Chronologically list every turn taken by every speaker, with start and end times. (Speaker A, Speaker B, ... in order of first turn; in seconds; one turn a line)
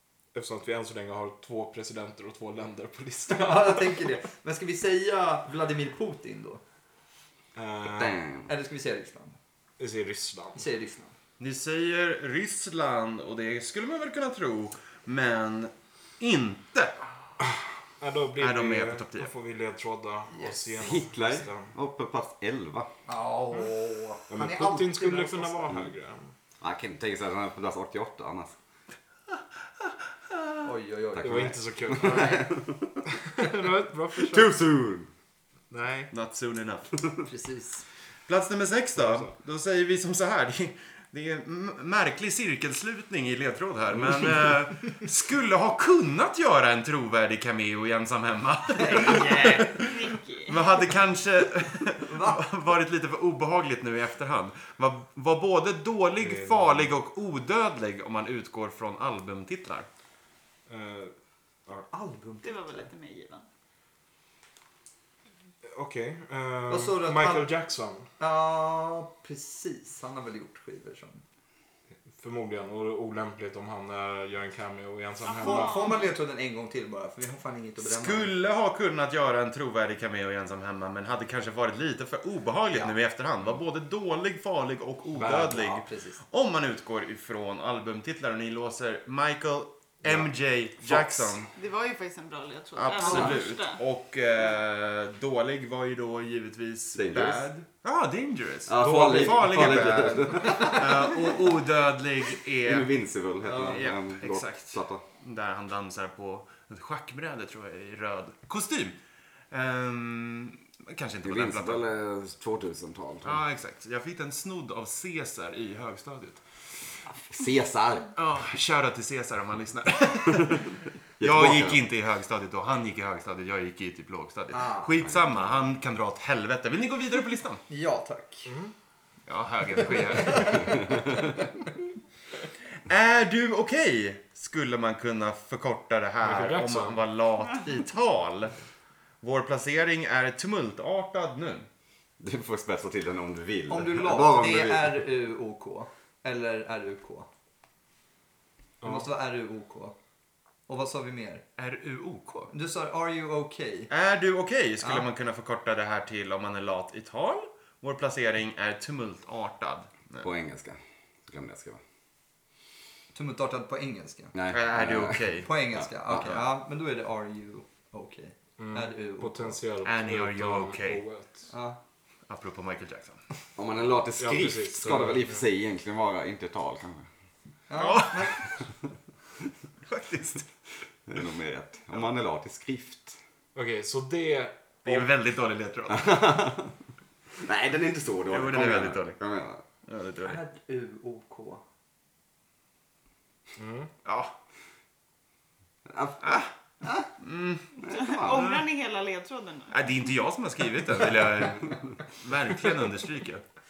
Speaker A: 0.3-4.1
Speaker B: 3.3-6.6
Speaker A: 7.5-8.2
Speaker C: 7.8-8.5
Speaker B: 8.5-9.4
Speaker A: 9.8-10.6
Speaker B: 10.5-11.1
Speaker D: 11.4-16.9
Speaker A: 18.0-21.7
Speaker D: 18.4-19.3
Speaker B: 20.3-20.8
Speaker C: 20.8-22.9
Speaker B: 23.1-25.8
Speaker A: 24.3-26.3
Speaker C: 26.6-28.6
Speaker B: 30.6-32.4
Speaker A: 31.2-32.5
Speaker C: 31.2-33.0
Speaker A: 33.1-34.5
Speaker C: 34.1-35.1
Speaker A: 35.7-36.1
Speaker D: 36.1-36.9
Speaker B: 37.2-37.8
Speaker D: 38.3-59.9
Speaker A: 39.0-39.3
Speaker B: 48.8-49.4
Speaker E: 48.8-50.6
Speaker B: 52.0-52.4
Speaker A: 56.2-56.9
Speaker A: 60.7-61.1
Speaker B: 61.9-62.9
Speaker E: 62.4-63.4
Speaker A: 65.7-68.1
Speaker B: 66.7-67.5
Speaker B: 68.2-71.2
Speaker A: 72.1-75.8
Speaker E: 75.3-76.1
Speaker B: 75.3-78.3
Speaker D: 77.8-91.5
Speaker A: 85.2-85.5
Speaker B: 85.2-86.2
Speaker C: 90.8-91.5
Speaker E: 91.5-93.8
Speaker D: 92.8-102.9
Speaker B: 93.0-93.4
Speaker C: 96.9-97.5
Speaker C: 98.7-101.1
Speaker A: 98.8-99.2
Speaker C: 102.6-105.0
Speaker D: 103.4-109.0
Speaker D: 109.5-111.8
Speaker C: 111.2-113.4
Speaker D: 113.2-116.6
Speaker C: 117.1-118.1
Speaker D: 118.2-127.6
Speaker C: 121.2-121.8
Speaker B: 124.5-124.9
Speaker B: 127.7-128.5
Speaker A: 128.5-128.7
Speaker D: 129.3-130.8
Speaker B: 130.2-130.6
Speaker D: 132.8-138.5
Speaker A: 136.2-137.0
Speaker D: 139.2-141.7
Speaker C: 142.2-145.0
Speaker B: 143.7-147.3
Speaker A: 148.8-149.1
Speaker B: 148.8-149.9
Speaker B: 150.7-151.4
Speaker D: 151.6-152.5
Speaker B: 152.5-153.9
Speaker D: 153.9-160.3
Speaker B: 154.8-155.1
Speaker C: 160.2-161.8
Speaker B: 163.1-164.3
Speaker C: 164.3-165.3
Speaker D: 164.5-165.5
Speaker B: 165.4-169.6
Speaker C: 165.8-166.4
Speaker A: 168.6-171.5
Speaker D: 169.8-171.0
Speaker B: 171.5-171.8
Speaker D: 172.3-173.2
Speaker C: 173.6-177.1
Speaker A: 174.2-175.4
Speaker B: 177.7-178.4
Speaker D: 177.8-178.6
Speaker D: 179.8-180.5
Speaker C: 181.1-183.2
Speaker A: 183.5-185.1
Speaker D: 184.8-186.3
Speaker C: 185.9-186.7
Speaker C: 187.4-189.6
Speaker D: 188.3-189.2
Speaker D: 189.8-190.4
Speaker B: 190.2-191.6
Speaker A: 193.6-193.9
Speaker D: 194.0-194.3
Speaker C: 195.8-196.4
Speaker D: 196.2-196.5
Speaker D: 197.2-198.6
Speaker C: 197.8-198.6
Speaker E: 197.9-199.8
Speaker D: 199.7-203.4